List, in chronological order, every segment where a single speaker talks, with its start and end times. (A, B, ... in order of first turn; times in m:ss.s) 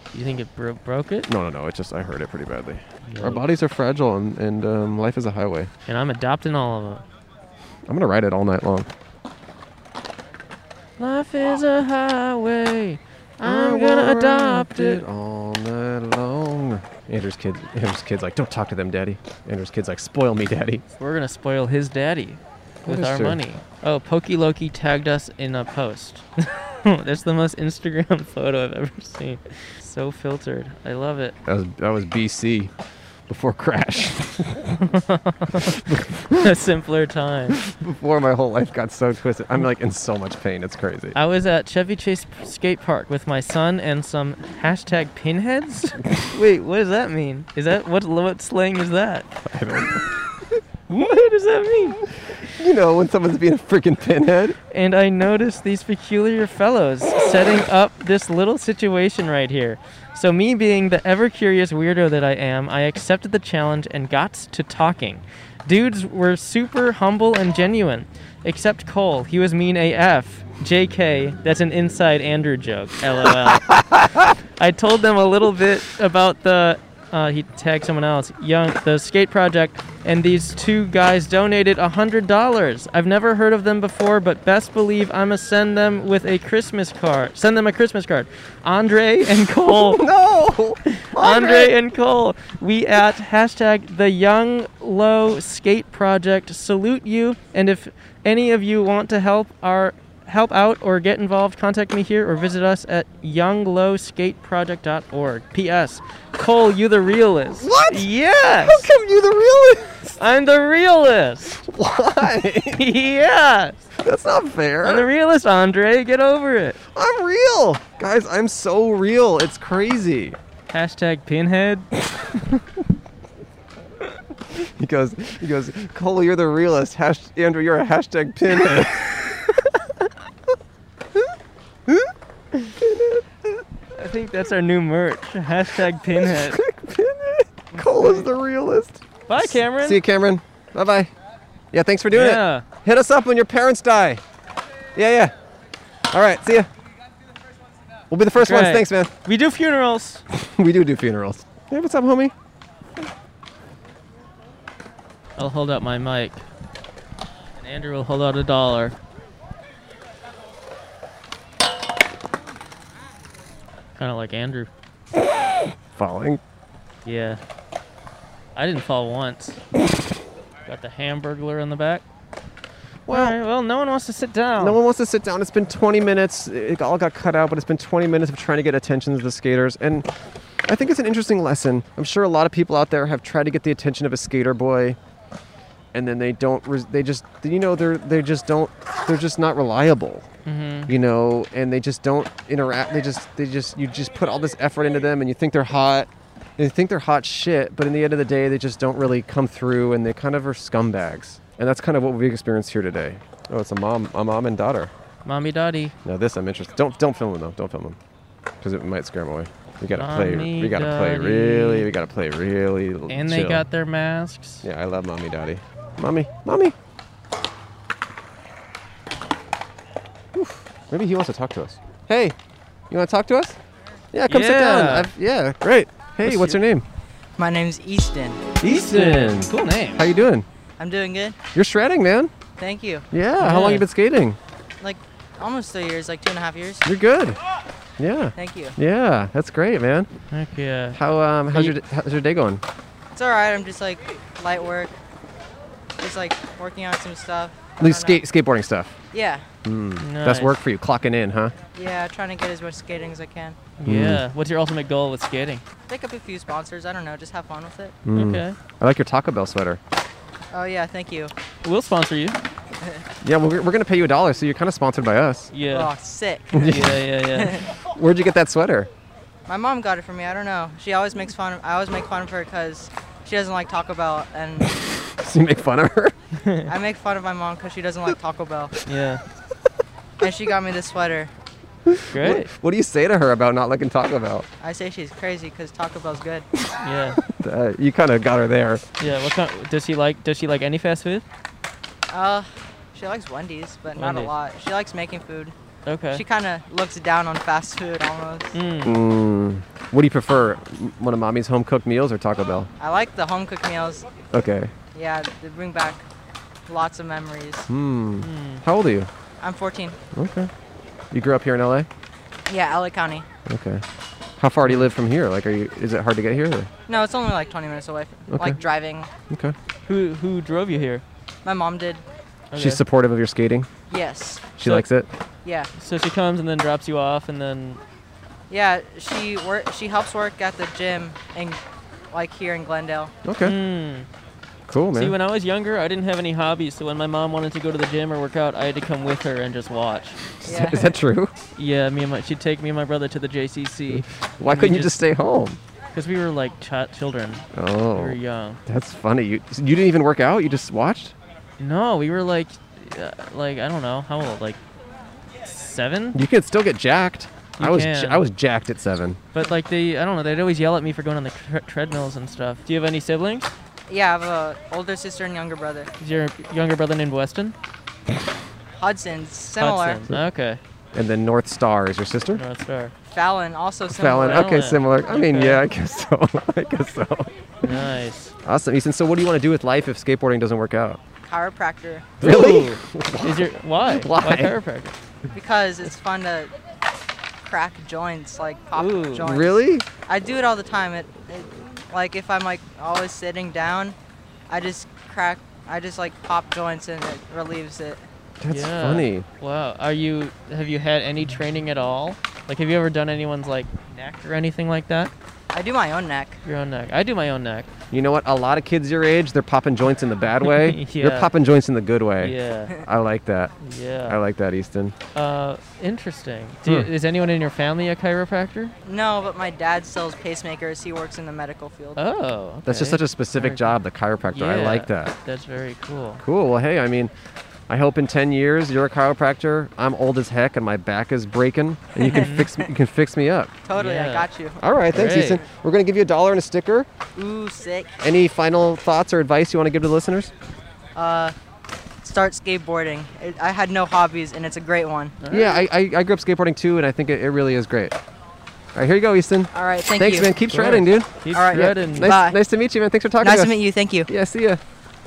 0:00.1-0:01.3 A
0:01.3-0:05.7 B
0:03.0-0:03.4 A
0:05.9-0:07.0 A
0:07.8-0:08.9 B
0:11.0-0:15.0 A
0:13.4-0:20.8 B
0:21.0-0:31.4 A
0:22.8-0:23.4 B
0:31.4-0:32.7 B
0:33.3-0:34.9 B
0:34.8-0:35.8 A
0:35.7-0:36.5 B
0:36.4-0:37.6 A
0:37.6-0:41.2 B
0:41.1-0:49.3 A
0:49.4-0:50.6 B
0:50.9-0:52.1 A
0:52.4-0:54.6 B
0:54.7-1:13.8 A
1:14.6-1:30.0 A
1:29.6-1:31.7 B
1:30.9-1:48.9 A
1:47.6-1:50.2 B
1:50.2-1:51.6 A
1:51.6-1:52.8 B
1:52.7-1:53.9 A
1:54.0-1:55.1 B
1:54.8-1:56.8 A
1:56.9-2:00.4 B
2:00.7-2:02.6 A
2:04.5-2:09.6 B
2:11.9-2:12.1 B
2:12.8-2:13.6 B
2:14.0-2:16.6 A
2:16.2-2:21.1 B
2:19.3-2:20.0 A
2:21.7-2:24.2 B
2:22.1-2:22.6 A
2:24.9-2:25.3 B
2:26.1-2:26.7 B
2:28.1-2:29.1 B
2:28.4-2:30.2 A
2:30.3-2:32.3 B
2:35.4-2:36.4 A
2:37.6-2:39.0 A
2:44.0-2:44.7 A
2:45.9-2:46.4 B
2:47.0-2:47.4 A
2:48.6-2:49.6 A
2:50.6-2:52.0 A
2:53.1-2:53.4 B
2:53.1-2:54.8 A
2:54.6-3:00.1 B
3:00.6-3:05.0 B
3:05.9-3:10.3 B
3:10.4-3:10.9 A
3:10.9-3:24.9 B
3:25.2-3:25.9 A
3:26.0-3:28.0 B
3:28.6-3:33.7 B
3:29.9-3:31.9 A
3:33.1-3:34.6 A
3:34.6-3:36.7 B
3:40.3-3:42.4 B
3:42.9-3:43.6 B
3:44.1-3:46.8 B
3:44.3-3:45.1 A
3:46.2-3:46.6 A
3:47.4-3:48.4 C
3:48.6-3:50.0 A
3:48.6-3:50.4 B
3:50.8-3:51.4 C
3:51.5-3:52.3 B
3:52.6-3:53.1 C
3:53.1-3:54.4 B
3:53.4-3:53.9 A
3:54.8-3:56.8 C
3:56.8-3:57.4 B
3:58.0-4:00.1 B
3:58.4-3:58.8 C
4:00.3-4:01.0 A
4:00.9-4:02.6 B
4:03.1-4:04.9 C
4:06.0-4:08.2 C
4:07.8-4:09.0 B
4:09.1-4:09.4 C
4:09.6-4:11.5 B
4:10.0-4:10.6 A
4:11.7-4:13.6 C
4:13.8-4:15.6 A
4:13.8-4:14.2 B
4:15.9-4:18.0 C
4:18.0-4:19.8 B
4:18.1-4:18.6 A
4:20.5-4:21.3 C
4:21.6-4:22.4 A
4:23.2-4:25.5 B
4:25.5-4:25.9 A
4:25.7-4:26.8 C
4:26.5-4:27.0 B
4:26.5-4:27.6 A
4:27.3-4:27.6 C
4:27.8-4:28.9 B
4:29.5-4:34.7 C
4:35.1-4:36.1 B
4:36.4-4:36.7 A
4:36.7-4:38.7 C
4:38.8-4:39.2 A
4:40.2-4:41.3 C
4:41.9-4:44.5 B
4:42.1-4:42.5 A
4:44.6-4:46.4 C
4:46.8-4:47.2 A
4:47.2-4:48.8 B
4:49.0-4:51.2 A
4:52.1-4:55.5 C
4:54.0-4:54.3 A
4:55.8-4:56.2 A
4:56.1-4:58.5 C
4:58.5-4:59.0 A
4:58.8-5:02.7 B
5:02.8-5:04.0 C
5:04.3-5:04.7 B
5:04.9-5:06.0 C
5:06.7-5:07.6 C
5:07.7-5:09.1 B
5:08.2-5:08.6 A
5:09.4-5:10.0 C
5:10.1-5:10.5 B
5:11.1-5:11.9 B
5:12.5-5:13.2 C
5:13.4-5:13.8 B
5:14.4-5:16.7 B
5:16.9-5:19.1 C
5:18.3-5:18.6 B
5:19.3-5:19.5 B
5:19.8-5:21.0 A
5:21.4-5:22.0 C
5:22.5-5:22.8 A
5:22.6-5:23.7 B
5:23.9-5:24.5 C
5:24.6-5:25.1 B
5:25.8-5:27.8 A
5:28.5-5:33.1 C
5:33.2-5:33.6 B
5:33.4-5:34.1 A
5:34.7-5:35.1 B
5:34.9-5:40.2 A
5:40.4-5:41.3 B
5:40.4-5:41.0 C
5:41.6-5:45.0 A
5:43.9-5:45.6 B
5:45.9-5:48.6 A
5:47.5-5:51.1 B
5:51.6-5:54.6 A
5:55.4-5:56.2 A
5:56.1-5:59.2 B
5:57.6-5:58.3 A
5:59.3-6:03.5 A
6:03.9-6:05.9 C
6:06.0-6:07.5 A
6:08.8-6:10.0 C
6:09.6-6:10.6 A
6:10.9-6:12.4 B
6:12.3-6:12.9 A
6:13.1-6:14.5 C
6:13.9-6:17.3 B
6:14.1-6:15.6 A
6:17.6-6:18.3 A
6:18.4-6:21.0 B
6:21.2-6:22.2 C
6:22.2-6:24.6 B
6:22.2-6:24.9 A
6:25.3-6:26.5 C
6:27.4-6:34.0 C
6:28.7-6:29.2 A
6:29.2-6:29.8 B
6:34.5-6:38.0 C
6:38.4-6:39.3 B
6:38.5-6:45.1 A
6:45.5-6:46.4 C
6:46.4-6:47.7 A
6:47.9-6:53.5 B
6:50.4-6:51.3 A
6:52.2-6:52.7 A
6:53.6-6:54.2 A
6:54.0-6:54.9 B
6:55.1-6:58.7 A
6:58.8-7:02.0 C
7:02.0-7:03.8 A
7:02.6-7:05.1 B
7:04.3-7:06.2 A
7:06.2-7:07.1 B
7:07.7-7:13.5 B
7:12.0-7:12.7 A
7:13.7-7:14.6 C
7:13.8-7:14.3 A
7:14.6-7:16.9 B
7:14.9-7:15.4 A
7:17.2-7:18.0 C
7:18.0-7:20.3 B
7:20.9-7:21.3 C
7:22.0-7:25.2 C
7:25.2-7:25.6 A
7:25.3-7:28.0 B
7:28.7-7:34.6 B
7:29.5-7:30.3 C
7:30.5-7:32.2 A
7:31.3-7:32.4 C
7:33.2-7:34.1 C